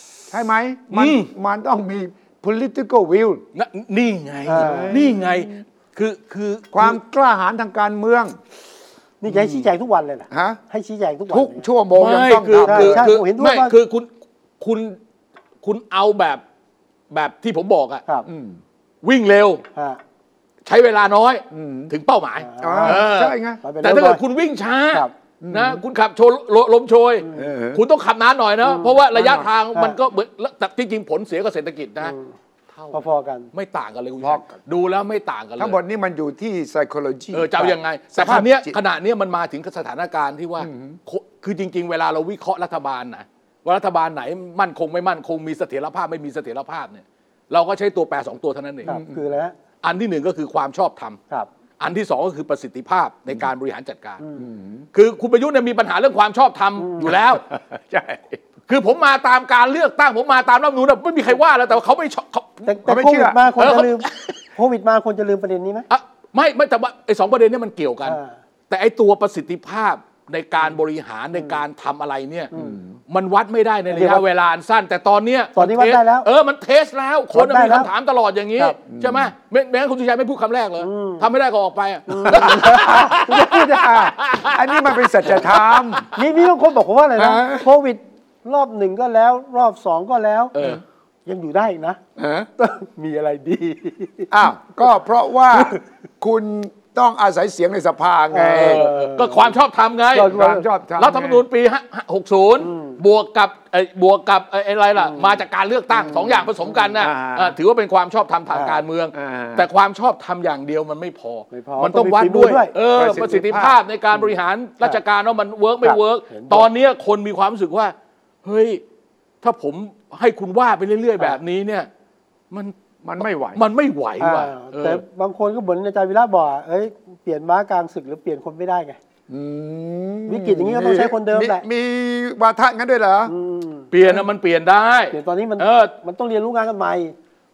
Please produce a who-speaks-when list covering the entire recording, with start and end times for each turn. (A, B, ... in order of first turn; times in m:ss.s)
0:00.3-0:03.4 A
0:00.9-0:01.3 B
0:03.5-0:07.0 B
0:04.5-0:05.0 C
0:04.5-0:05.6 A
0:06.7-0:08.4 A
0:09.2-0:11.6 C
0:09.3-0:09.7 B
0:10.3-0:10.6 A
0:11.3-0:13.1 A
0:11.9-0:14.1 B
0:12.6-0:13.7 C
0:14.6-0:15.0 B
0:15.6-0:16.4 B
0:17.1-0:18.0 B
0:18.2-0:18.6 A
0:19.0-0:19.6 B
0:19.7-0:20.0 C
0:20.6-0:32.1 B
0:21.5-0:21.9 A
0:22.4-0:23.1 C
0:22.6-0:23.6 A
0:23.6-0:24.2 C
0:25.4-0:25.8 A
0:27.3-0:27.8 A
0:28.6-0:29.0 C
0:29.1-0:29.5 A
0:32.0-0:32.3 C
0:32.7-0:33.0 B
0:32.9-0:33.5 C
0:33.5-0:35.8 B
0:34.2-0:34.6 A
0:35.6-0:38.8 A
0:37.3-0:48.9 B
0:40.6-0:41.0 A
0:48.8-0:49.2 A
0:48.8-0:49.5 C
0:49.8-0:51.2 B
0:51.8-0:54.2 B
0:54.4-0:54.8 A
0:54.9-0:57.4 B
0:56.8-0:57.1 C
0:57.5-0:58.4 A
0:58.7-1:02.7 B
1:02.6-1:05.9 C
1:02.8-1:03.5 A
1:03.6-1:04.3 B
1:05.9-1:08.2 B
1:08.0-1:08.4 C
1:08.7-1:12.5 B
1:12.5-1:12.8 C
1:12.5-1:13.0 A
1:13.1-1:26.1 B
1:13.9-1:14.2 C
1:15.6-1:16.3 C
1:17.3-1:17.9 C
1:18.9-1:19.3 A
1:20.8-1:21.2 C
1:22.1-1:24.1 C
1:23.7-1:26.1 A
1:26.1-1:30.6 C
1:27.2-1:27.7 A
1:30.5-1:30.8 B
1:31.2-1:32.0 C
1:32.2-1:32.5 A
1:32.6-1:34.3 C
1:34.3-1:38.8 A
1:38.3-1:39.5 C
1:38.5-1:40.3 B
1:40.1-1:40.6 C
1:40.2-1:41.4 A
1:41.0-1:58.8 B
1:42.6-1:43.0 C
1:45.0-1:45.3 C
1:46.9-1:47.6 A
1:48.5-1:48.8 C
1:49.1-1:49.7 A
1:51.5-1:52.7 C
1:52.9-1:53.7 A
1:55.8-1:56.7 C
1:59.4-2:01.9 B
2:03.0-2:03.6 A
2:03.5-2:05.0 B
2:04.2-2:09.0 C
2:09.3-2:13.3 A
2:10.3-2:11.6 C
2:13.3-2:13.9 C
2:13.9-2:15.9 B
2:15.1-2:17.1 C